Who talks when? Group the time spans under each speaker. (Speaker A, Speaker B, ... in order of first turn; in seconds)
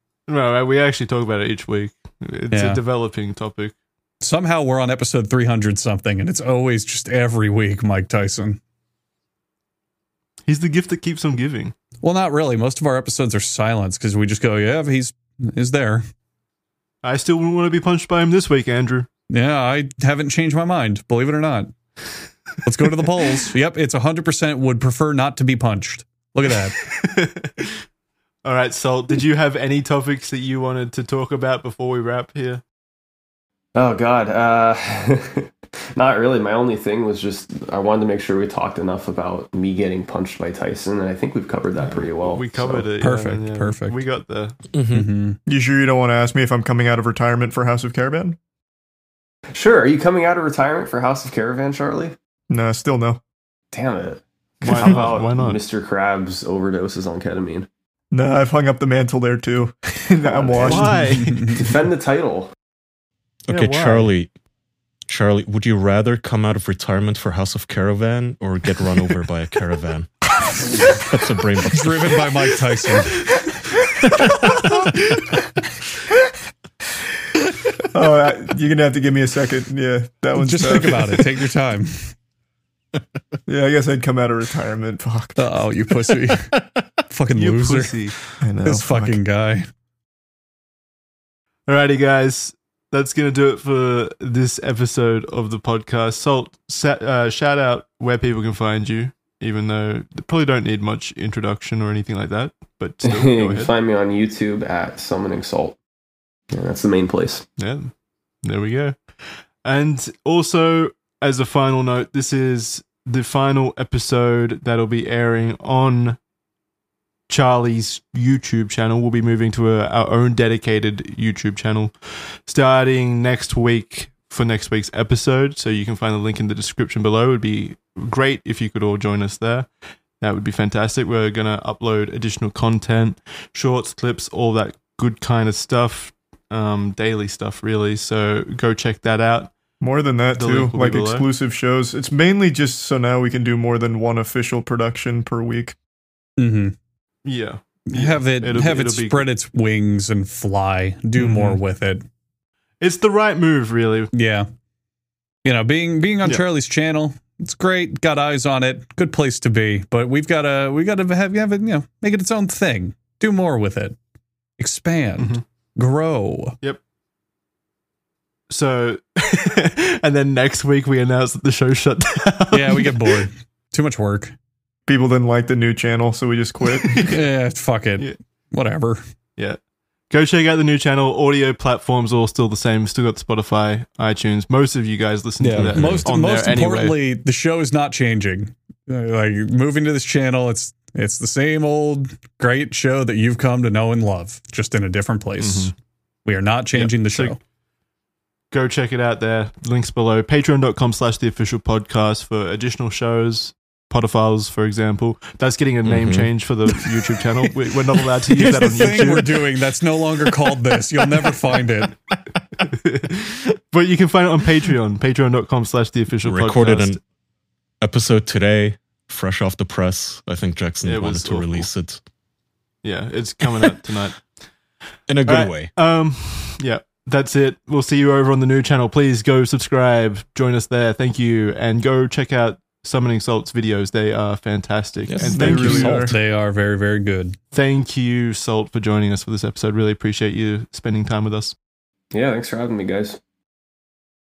Speaker A: 0.3-3.7, 10.4-11.7, 17.0-19.1, 26.8-27.9, 28.4-32.6, 41.8-44.6, 54.6-55.6, 60.6-61.6, 63.5-64.1, 87.3-88.2, 91.7-103.7, 107.6-116.2, 117.3-139.6, 140.3-141.3, 147.2-149.3, 151.2-151.6, 152.8-154.1, 165.2-165.4, 168.5-173.2, 176.8-177.2, 179.4-187.0, 195.4-195.7, 196.7-197.4, 198.5-209.5, 212.7-217.0, 220.8-221.7, 222.8-224.4, 225.2-236.0, 237.5-241.5
Speaker B: 2.5-2.8, 4.2-8.6, 12.0-16.0, 19.3-21.8, 22.6-26.8, 43.0-44.0, 44.9-45.4, 71.7-73.4, 80.3-82.2, 85.4-89.7, 146.4-146.8, 147.9-152.0, 154.1-154.5, 155.4-164.0, 164.6-166.6, 172.5-174.3, 177.1-179.0, 185.4-195.7, 196.2-197.4, 208.4-212.0, 236.0-237.4
Speaker C: 33.8-42.9, 49.5-52.1, 53.7-57.7, 60.3-62.5, 103.0-105.8, 106.5-107.4, 242.1-243.2
Speaker D: 44.7-45.1, 63.5-64.3, 65.1-72.4, 74.1-74.9, 86.5-86.8, 185.5-186.1, 205.8-206.3, 208.6-209.2, 216.2-217.0, 217.8-222.0, 225.1-225.7, 235.1-236.1
Speaker E: 45.5-48.4, 52.5-53.2, 58.1-61.2, 77.9-81.2, 83.5-85.6, 88.4-89.2, 139.8-145.8, 174.9-177.1, 235.3-236.2